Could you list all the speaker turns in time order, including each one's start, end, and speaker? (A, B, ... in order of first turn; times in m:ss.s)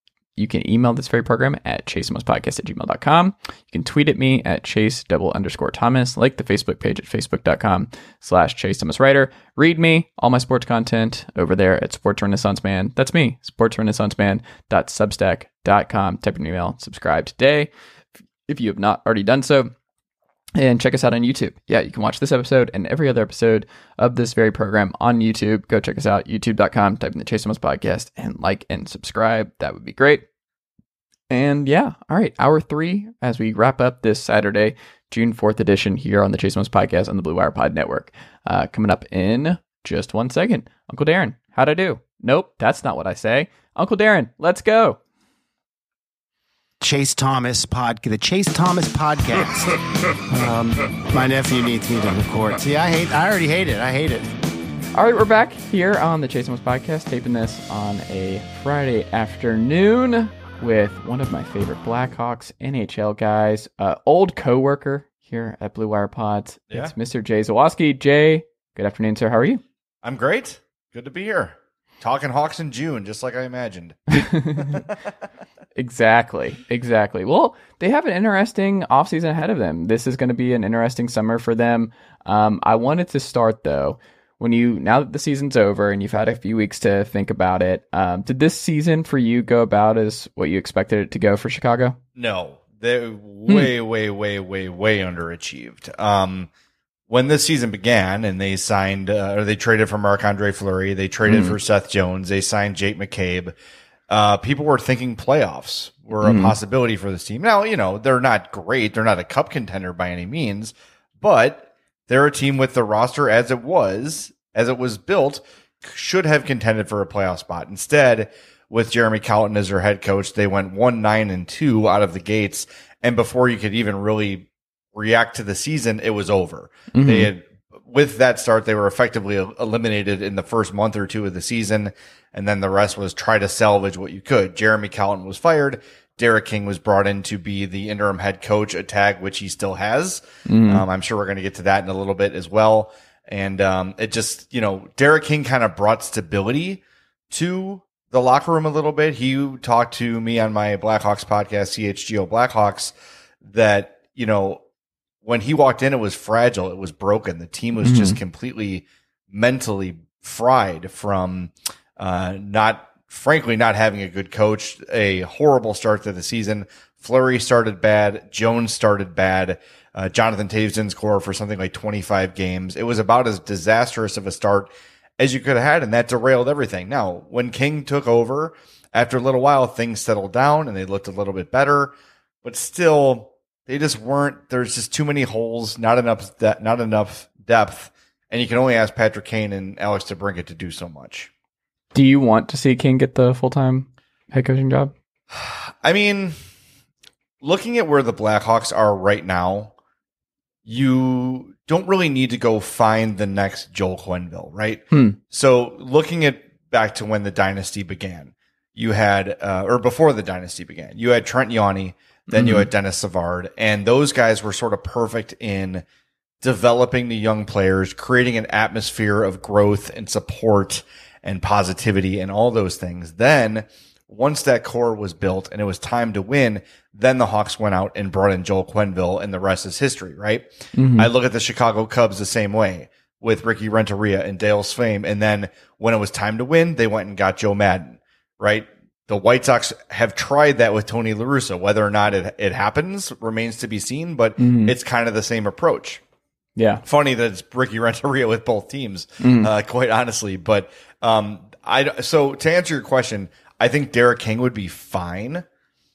0:00.4-0:17.7 A
0:18.5-0:19.7 A
0:20.6-0:30.2 A
0:31.3-0:45.0 A
0:46.8-0:49.8 B
0:50.3-0:54.3 B
0:55.0-1:09.6 A
1:10.0-1:15.0 C
1:14.1-1:14.8 A
1:15.8-1:32.0 A
1:32.2-1:36.5 C
1:37.1-1:43.5 C
1:41.2-1:41.6 A
1:44.1-2:34.6 C
1:46.2-1:46.6 A
2:06.9-2:07.3 A
2:20.5-2:20.8 A
2:35.2-3:01.9 C
2:37.8-2:38.2 A
3:02.4-3:11.3 C
3:11.9-3:14.9 A
3:15.3-3:16.4 C
3:17.4-3:19.7 C
3:20.7-3:35.8 C
3:24.9-3:25.2 A
3:32.3-3:32.7 A
3:36.4-4:06.0 C
3:50.7-3:51.1 A
4:04.4-4:04.8 A
4:06.6-4:06.8 A
4:06.8-4:15.4 C
4:09.2-4:09.5 A